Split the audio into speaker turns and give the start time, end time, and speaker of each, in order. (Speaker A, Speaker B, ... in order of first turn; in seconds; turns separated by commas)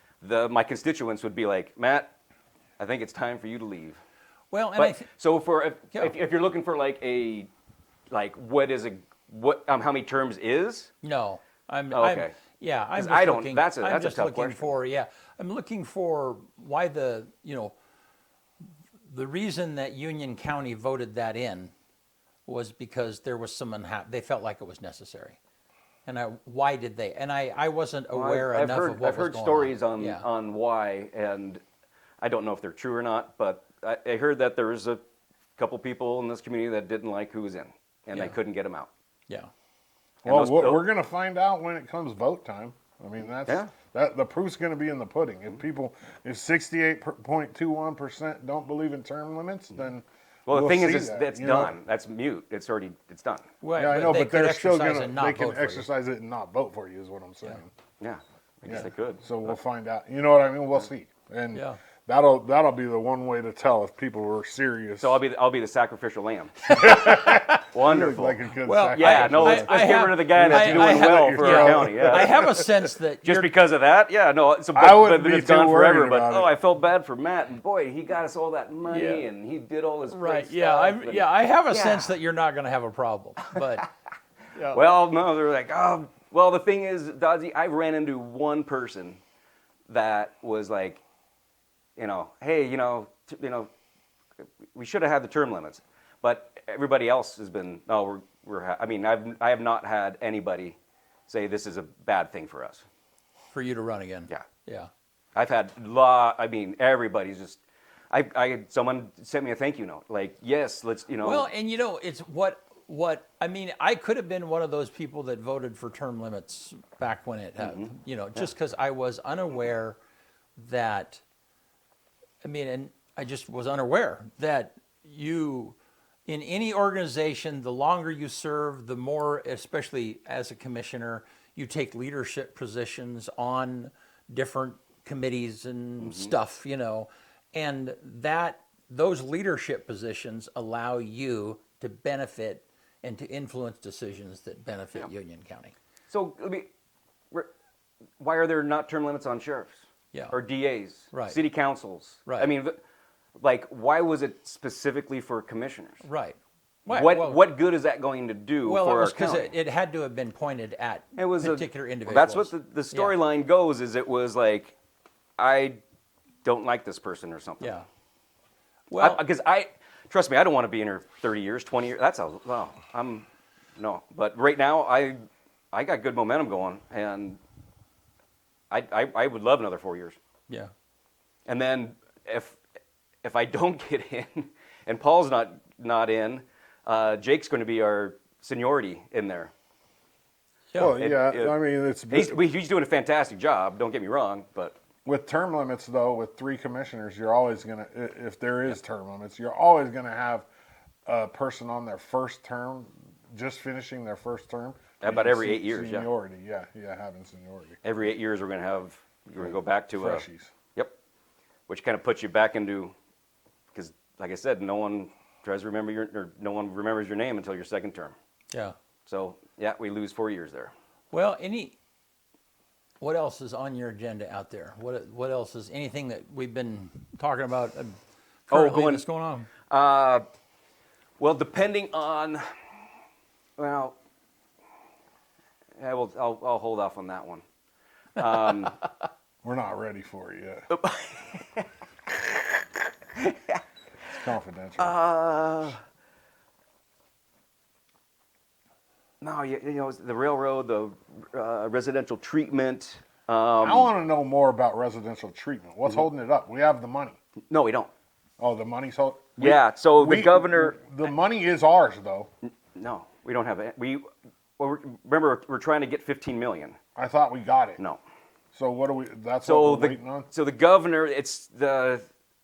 Speaker A: 0.2-2.1, Speaker A: 2.8-4.0, Speaker B: 4.5-5.1, Speaker A: 4.8-7.5, Speaker A: 8.1-10.9, Speaker B: 11.0-17.7, Speaker A: 11.9-12.4, Speaker A: 12.9-14.7, Speaker B: 19.1-21.7, Speaker B: 22.5-25.4, Speaker B: 26.1-30.3, Speaker A: 28.1-31.6, Speaker A: 32.2-35.0, Speaker A: 35.6-38.9, Speaker C: 40.2-51.8, Speaker A: 40.2-40.8, Speaker A: 43.5-43.7, Speaker A: 50.5-53.5, Speaker B: 53.6-55.9, Speaker C: 53.8-57.7, Speaker A: 58.0-59.6, Speaker C: 58.6-65.2, Speaker B: 61.5-61.8, Speaker A: 65.0-68.4, Speaker C: 66.7-72.8, Speaker B: 66.8-67.6, Speaker B: 68.6-73.5, Speaker A: 69.0-72.5, Speaker A: 73.2-82.0, Speaker C: 74.7-76.5, Speaker B: 78.9-79.2, Speaker B: 80.1-83.9, Speaker A: 84.7-89.2, Speaker A: 89.9-91.0, Speaker A: 92.0-93.7, Speaker A: 94.7-100.8, Speaker A: 101.3-102.8, Speaker B: 103.5-104.9, Speaker A: 105.3-107.6, Speaker A: 108.1-111.5, Speaker B: 111.2-120.0, Speaker A: 117.6-118.5, Speaker B: 120.6-121.2, Speaker B: 122.4-125.8, Speaker B: 126.3-145.7, Speaker A: 136.0-136.3, Speaker A: 146.1-146.7, Speaker A: 148.2-152.8, Speaker B: 151.1-151.4, Speaker A: 153.4-156.0, Speaker B: 156.0-157.4, Speaker A: 156.9-159.5, Speaker B: 158.6-163.2, Speaker A: 161.2-164.8, Speaker A: 165.4-165.8, Speaker A: 166.4-167.7, Speaker B: 167.6-167.9, Speaker B: 168.9-169.2, Speaker A: 169.0-173.3, Speaker A: 173.8-175.2, Speaker A: 175.7-177.4, Speaker A: 178.7-180.2, Speaker A: 181.5-182.6, Speaker A: 183.2-189.5, Speaker B: 190.7-191.0, Speaker C: 190.8-192.4, Speaker A: 191.0-191.6, Speaker A: 192.1-194.8, Speaker C: 195.1-200.5, Speaker C: 201.1-207.8, Speaker A: 205.0-206.1, Speaker A: 207.8-210.9, Speaker C: 209.4-210.5, Speaker A: 211.7-212.9, Speaker A: 213.7-218.2, Speaker A: 219.1-220.7, Speaker B: 221.1-221.8, Speaker B: 223.0-228.0, Speaker B: 228.5-229.5, Speaker A: 228.5-229.1, Speaker A: 229.7-230.2, Speaker A: 231.2-232.5, Speaker A: 233.6-233.9, Speaker A: 235.8-237.4, Speaker A: 238.2-238.8, Speaker C: 239.4-240.7, Speaker A: 240.7-241.7, Speaker C: 244.1-244.9, Speaker A: 244.8-245.8, Speaker A: 249.2-253.9, Speaker C: 253.6-257.2, Speaker A: 257.5-257.9, Speaker C: 258.4-262.3, Speaker A: 259.4-260.9, Speaker A: 262.7-264.1, Speaker A: 264.6-266.8, Speaker C: 267.0-267.8, Speaker C: 268.5-270.3, Speaker A: 269.4-272.1